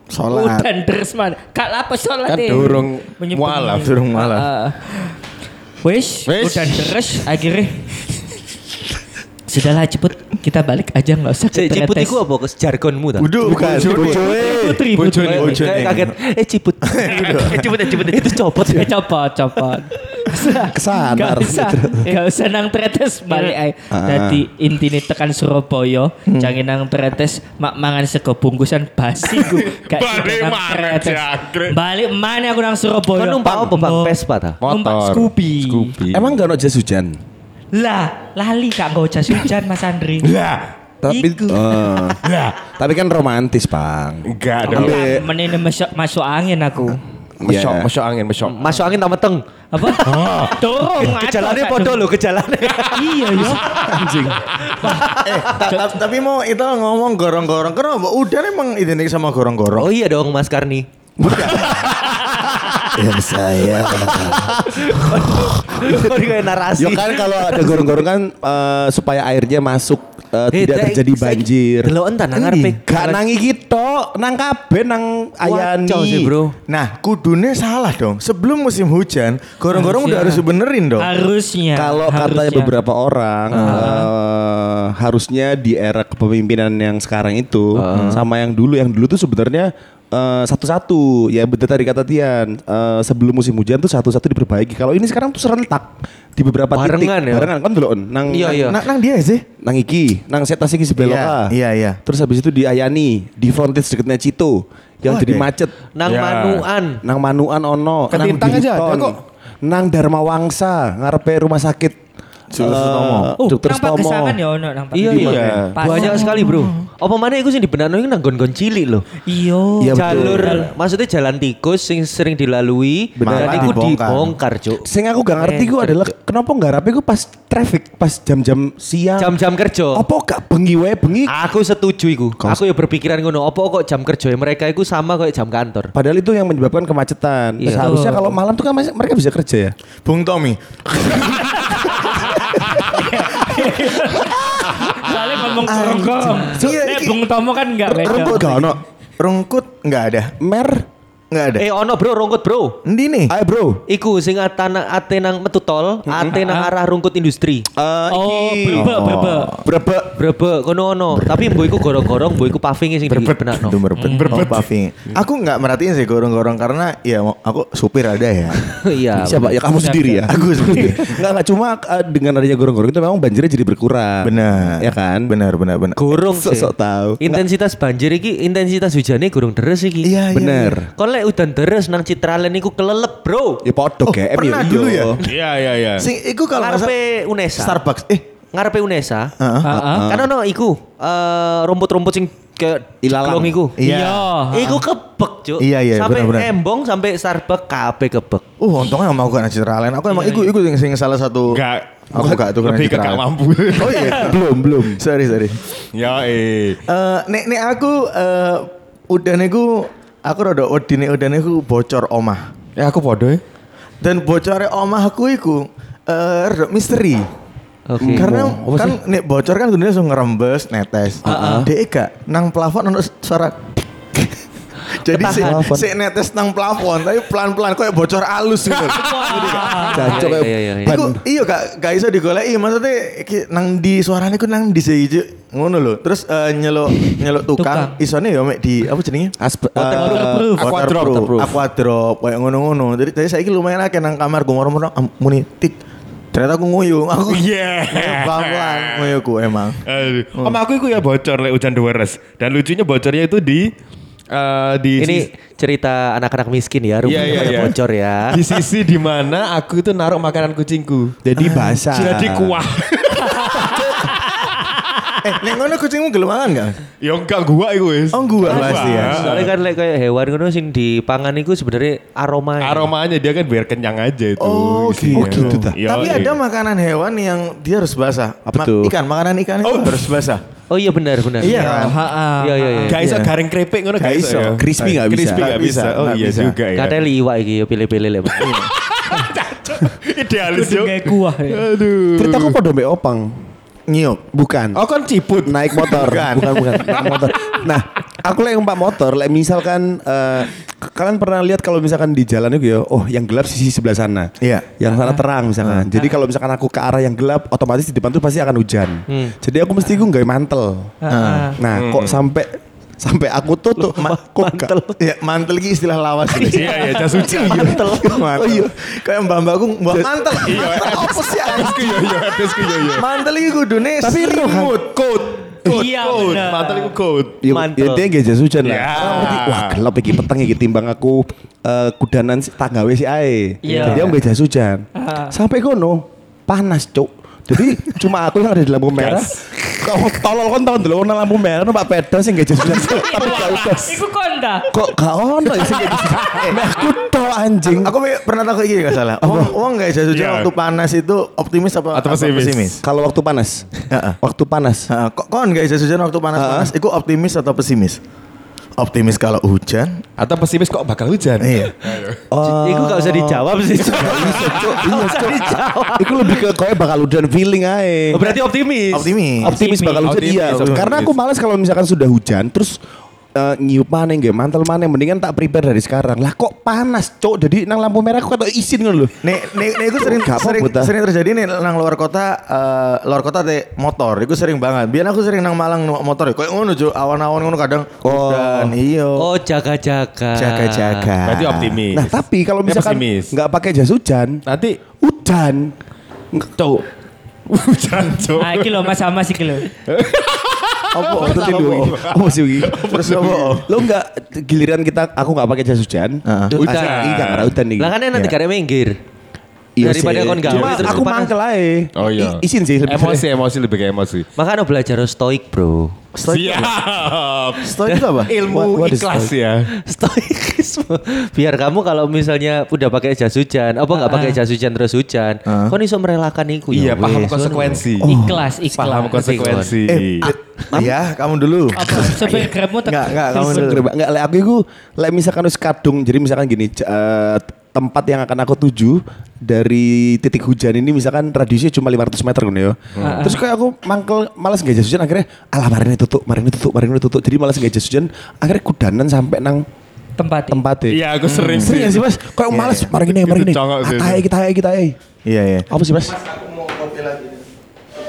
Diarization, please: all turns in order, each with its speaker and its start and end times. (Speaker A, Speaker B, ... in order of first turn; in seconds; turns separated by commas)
Speaker A: 0.1-0.7, Speaker B: 0.3-5.2, Speaker C: 2.3-3.9, Speaker A: 3.8-4.5, Speaker B: 5.8-7.9, Speaker C: 6.3-7.0, Speaker B: 9.5-12.2, Speaker D: 11.5-13.3, Speaker A: 13.2-14.5, Speaker E: 13.4-14.8, Speaker C: 13.6-14.1, Speaker B: 14.0-15.6, Speaker C: 14.9-15.6, Speaker D: 15.3-18.9, Speaker A: 15.3-16.1, Speaker A: 16.9-17.6, Speaker B: 18.7-35.9, Speaker E: 20.7-22.1, Speaker D: 23.3-23.5, Speaker E: 23.9-24.4, Speaker A: 26.3-26.5, Speaker C: 29.3-31.8, Speaker D: 33.1-34.6, Speaker C: 34.6-36.4, Speaker E: 36.1-37.2, Speaker B: 37.7-40.3, Speaker C: 40.2-40.7, Speaker E: 41.0-45.2, Speaker B: 41.0-41.8, Speaker C: 42.2-42.6, Speaker C: 44.3-45.0, Speaker B: 44.6-47.0, Speaker D: 44.7-45.0, Speaker C: 47.4-48.6, Speaker E: 47.4-47.9, Speaker D: 48.4-50.3, Speaker B: 49.7-52.1, Speaker C: 50.0-50.6, Speaker D: 51.0-53.5, Speaker B: 52.9-53.6, Speaker E: 53.9-54.4, Speaker C: 54.6-54.9, Speaker B: 54.8-55.1, Speaker D: 54.8-55.5, Speaker A: 55.2-59.9, Speaker B: 55.7-55.9, Speaker D: 59.7-60.9, Speaker E: 61.2-61.8, Speaker A: 61.2-61.9, Speaker E: 62.9-66.0, Speaker D: 63.7-68.0, Speaker E: 66.8-71.9, Speaker D: 70.5-73.3, Speaker A: 72.3-72.8, Speaker E: 72.9-76.3, Speaker D: 75.4-76.5, Speaker A: 76.7-81.1, Speaker B: 79.7-80.4, Speaker B: 81.0-82.8, Speaker E: 81.7-98.8, Speaker A: 83.5-83.9, Speaker B: 83.6-84.1, Speaker D: 87.8-88.2, Speaker D: 96.7-97.5, Speaker D: 98.3-98.8, Speaker A: 98.5-99.4, Speaker E: 99.6-101.5, Speaker A: 101.0-102.0, Speaker E: 102.0-105.7, Speaker A: 105.1-105.5, Speaker D: 106.0-107.0, Speaker C: 106.0-106.7, Speaker E: 107.0-112.0, Speaker C: 108.1-109.2, Speaker A: 112.5-113.3, Speaker E: 112.6-114.4, Speaker B: 113.4-116.5, Speaker D: 114.9-119.1, Speaker C: 115.1-115.7, Speaker E: 115.2-116.1, Speaker A: 116.2-116.7, Speaker B: 119.2-120.7, Speaker E: 119.8-120.7, Speaker D: 119.9-124.8, Speaker E: 123.2-123.9, Speaker A: 123.2-124.3, Speaker E: 124.8-129.4, Speaker D: 125.4-126.1, Speaker D: 129.2-130.0, Speaker E: 129.9-131.3, Speaker D: 131.3-135.9, Speaker E: 135.9-139.7, Speaker D: 137.6-138.2, Speaker B: 137.7-138.3, Speaker A: 140.0-142.6, Speaker B: 141.2-142.2, Speaker B: 142.7-148.4, Speaker A: 143.5-144.1, Speaker A: 145.6-147.2, Speaker E: 147.9-148.8, Speaker A: 148.4-148.7, Speaker A: 149.2-150.3, Speaker E: 150.4-150.8, Speaker A: 151.3-151.7, Speaker D: 151.6-152.8, Speaker A: 152.8-153.3, Speaker E: 153.3-153.8, Speaker D: 153.9-157.7, Speaker E: 157.7-160.2, Speaker B: 158.1-159.5, Speaker A: 158.7-159.5, Speaker D: 160.2-163.8, Speaker C: 163.1-164.7, Speaker A: 163.6-168.6, Speaker B: 164.0-164.5, Speaker D: 168.8-170.2, Speaker E: 169.2-175.3, Speaker B: 169.8-170.1, Speaker A: 170.3-171.2, Speaker A: 174.2-176.0, Speaker D: 175.9-180.1, Speaker E: 176.3-177.4, Speaker A: 180.0-180.8, Speaker E: 180.3-180.9, Speaker D: 180.9-183.6, Speaker E: 183.6-185.2, Speaker A: 184.1-185.2, Speaker C: 185.2-186.1, Speaker A: 186.0-186.9, Speaker D: 186.6-187.8, Speaker A: 187.5-188.2, Speaker D: 188.5-189.3, Speaker A: 189.4-189.7, Speaker B: 189.6-190.1, Speaker E: 189.7-190.3, Speaker D: 190.0-193.8, Speaker E: 193.0-193.6, Speaker A: 193.8-194.2, Speaker B: 193.8-194.8, Speaker D: 194.5-198.4, Speaker A: 195.6-196.5, Speaker A: 198.6-201.6, Speaker D: 200.1-200.5, Speaker C: 201.5-204.1, Speaker A: 202.1-205.6, Speaker E: 204.0-205.0, Speaker C: 205.9-206.8, Speaker A: 206.9-212.5, Speaker C: 212.8-213.4, Speaker A: 214.0-217.3, Speaker D: 217.9-218.3, Speaker E: 218.0-219.0, Speaker A: 218.1-223.5, Speaker E: 221.2-221.7, Speaker D: 221.2-221.7, Speaker A: 224.9-229.8, Speaker D: 225.1-225.6, Speaker E: 225.3-225.9, Speaker B: 228.9-230.1, Speaker E: 229.8-231.2, Speaker D: 229.9-231.0, Speaker A: 230.8-245.8, Speaker B: 237.6-237.9, Speaker E: 239.4-240.5, Speaker D: 239.8-240.2, Speaker B: 240.0-240.7, Speaker C: 240.6-241.6, Speaker A: 246.3-249.8, Speaker C: 247.2-249.2, Speaker C: 249.8-253.7, Speaker A: 250.3-250.6, Speaker C: 254.3-255.3, Speaker D: 255.0-258.4, Speaker C: 257.0-257.8, Speaker A: 257.1-257.7, Speaker C: 258.3-261.2, Speaker E: 261.2-262.6, Speaker A: 261.4-261.9, Speaker C: 261.9-264.4, Speaker A: 265.2-266.8, Speaker C: 267.0-269.5, Speaker A: 268.1-269.4, Speaker D: 268.5-272.9, Speaker C: 272.6-276.4, Speaker A: 274.4-280.4, Speaker E: 275.1-276.1, Speaker E: 278.5-278.9, Speaker C: 279.6-280.2, Speaker D: 280.7-283.0, Speaker A: 281.4-282.0, Speaker B: 281.4-283.0, Speaker C: 282.9-287.1, Speaker A: 283.0-283.3, Speaker A: 284.0-286.6, Speaker E: 284.4-285.6, Speaker D: 286.7-288.5, Speaker C: 288.4-292.6, Speaker A: 288.4-288.7, Speaker B: 290.5-291.6, Speaker E: 292.2-293.4, Speaker A: 293.9-294.2, Speaker E: 294.3-294.8, Speaker C: 294.7-296.1, Speaker E: 295.4-310.9, Speaker A: 295.9-297.0, Speaker C: 296.6-297.6, Speaker A: 304.4-304.7, Speaker A: 305.6-305.9, Speaker D: 309.1-309.3, Speaker B: 311.0-311.6, Speaker A: 311.1-311.6, Speaker E: 311.6-314.7, Speaker C: 311.7-312.2, Speaker D: 313.8-315.0, Speaker A: 315.0-322.0, Speaker D: 316.3-318.2, Speaker C: 316.4-317.8, Speaker E: 318.3-318.7, Speaker E: 319.9-322.0, Speaker C: 320.4-323.1, Speaker A: 322.8-324.9, Speaker E: 324.0-324.9, Speaker C: 324.9-327.4, Speaker B: 325.6-326.9, Speaker E: 327.4-344.0, Speaker D: 327.5-328.1, Speaker C: 328.6-329.8, Speaker B: 333.6-334.1, Speaker B: 334.9-335.3, Speaker C: 338.9-339.3, Speaker B: 342.6-344.7, Speaker C: 343.1-343.8, Speaker E: 344.7-347.9, Speaker C: 345.6-346.5, Speaker A: 347.6-352.8, Speaker E: 349.2-349.5, Speaker C: 350.1-350.5, Speaker C: 351.9-352.8, Speaker E: 352.8-353.7, Speaker A: 353.9-354.2, Speaker E: 354.2-354.9, Speaker A: 354.9-358.0, Speaker E: 356.3-356.7, Speaker A: 358.8-360.0, Speaker C: 360.2-362.2, Speaker A: 361.4-361.7, Speaker E: 362.3-368.2, Speaker D: 362.4-366.5, Speaker A: 363.8-364.7, Speaker D: 368.1-369.2, Speaker A: 368.3-369.5, Speaker E: 369.4-372.7, Speaker B: 369.4-370.1, Speaker C: 370.0-371.1, Speaker A: 370.3-370.9, Speaker E: 373.4-379.2, Speaker A: 379.2-389.3, Speaker E: 380.0-380.9, Speaker E: 388.0-388.8, Speaker D: 389.1-391.1, Speaker A: 390.3-391.8, Speaker C: 391.2-392.1, Speaker E: 391.9-394.4, Speaker C: 392.6-393.3, Speaker C: 394.5-394.8, Speaker E: 395.0-395.7, Speaker E: 396.3-396.8, Speaker C: 397.5-398.9, Speaker B: 398.4-399.7, Speaker C: 399.8-403.6, Speaker A: 400.9-401.9, Speaker E: 400.9-402.8, Speaker A: 402.9-403.7, Speaker E: 403.6-408.0, Speaker A: 406.3-406.9, Speaker C: 406.6-407.5, Speaker D: 406.6-407.0, Speaker D: 407.8-409.0, Speaker E: 409.8-413.3, Speaker D: 409.8-411.3, Speaker C: 410.5-410.9, Speaker C: 412.0-414.3, Speaker D: 414.4-415.9, Speaker A: 416.1-416.7, Speaker C: 416.2-419.7, Speaker A: 417.6-418.3, Speaker D: 417.9-418.2, Speaker E: 418.4-419.3, Speaker D: 419.9-427.8, Speaker B: 423.9-424.4, Speaker A: 425.5-425.8, Speaker C: 426.7-428.1, Speaker E: 428.0-428.5, Speaker B: 428.0-429.2, Speaker C: 428.8-430.3, Speaker D: 429.1-429.8, Speaker A: 429.9-433.8, Speaker B: 431.7-433.8, Speaker E: 433.2-449.6, Speaker C: 443.0-443.2, Speaker B: 443.0-443.4, Speaker B: 450.1-450.6, Speaker E: 450.5-451.0, Speaker C: 450.9-452.0, Speaker A: 451.2-452.9, Speaker E: 451.6-454.9, Speaker C: 453.0-454.2, Speaker A: 455.2-455.7, Speaker E: 455.7-456.2, Speaker A: 456.2-457.4